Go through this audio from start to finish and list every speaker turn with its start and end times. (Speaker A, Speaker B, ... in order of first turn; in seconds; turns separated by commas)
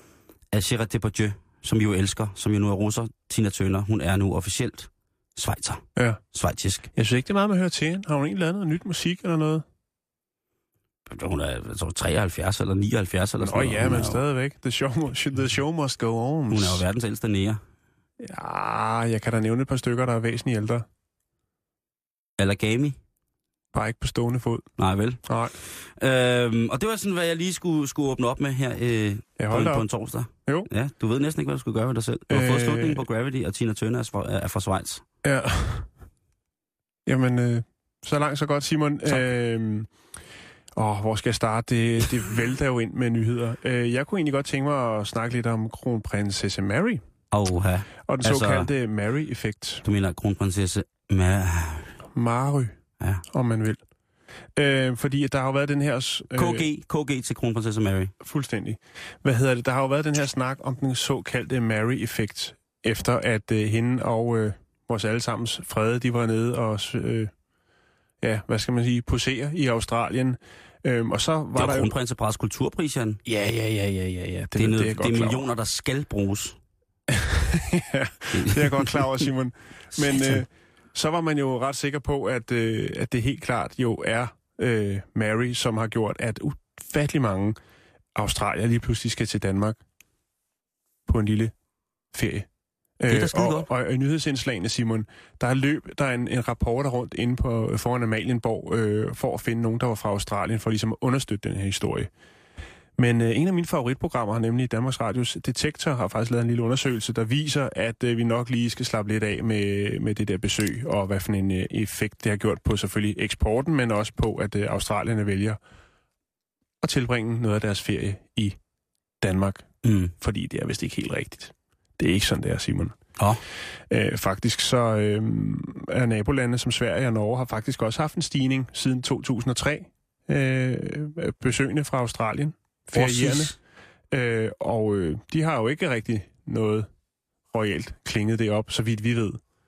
Speaker A: 0.5-6.9, Speaker B: 6.9-9.6, Speaker A: 11.1-14.2, Speaker B: 13.4-16.8, Speaker A: 16.5-17.6, Speaker B: 18.2-20.9, Speaker A: 22.4-22.9, Speaker B: 23.7-24.6, Speaker A: 24.8-35.0, Speaker B: 25.2-25.5, Speaker B: 29.4-29.9, Speaker B: 32.3-33.0, Speaker B: 35.2-35.9, Speaker B: 37.0-39.9, Speaker B: 40.7-47.0, Speaker A: 47.3-48.7, Speaker B: 48.1-49.8, Speaker A: 49.8-51.9, Speaker B: 52.1-53.8, Speaker B: 54.5-56.6, Speaker A: 56.3-58.1, Speaker B: 58.2-67.3, Speaker B: 68.2-71.9, Speaker A: 71.5-73.2, Speaker B: 73.2-75.5, Speaker A: 74.5-76.6, Speaker B: 77.1-87.6, Speaker A: 78.3-79.0, Speaker B: 88.1-89.8, Speaker B: 91.1-91.5, Speaker B: 92.1-92.5, Speaker B: 93.0-102.1, Speaker A: 93.1-93.7, Speaker B: 103.0-115.6, Speaker B: 116.8-118.6, Speaker B: 119.2-119.7, Speaker A: 119.8-120.1, Speaker B: 120.2-122.9, Speaker B: 123.9-133.6, Speaker A: 132.9-133.6, Speaker B: 134.1-136.9, Speaker B: 137.5-139.4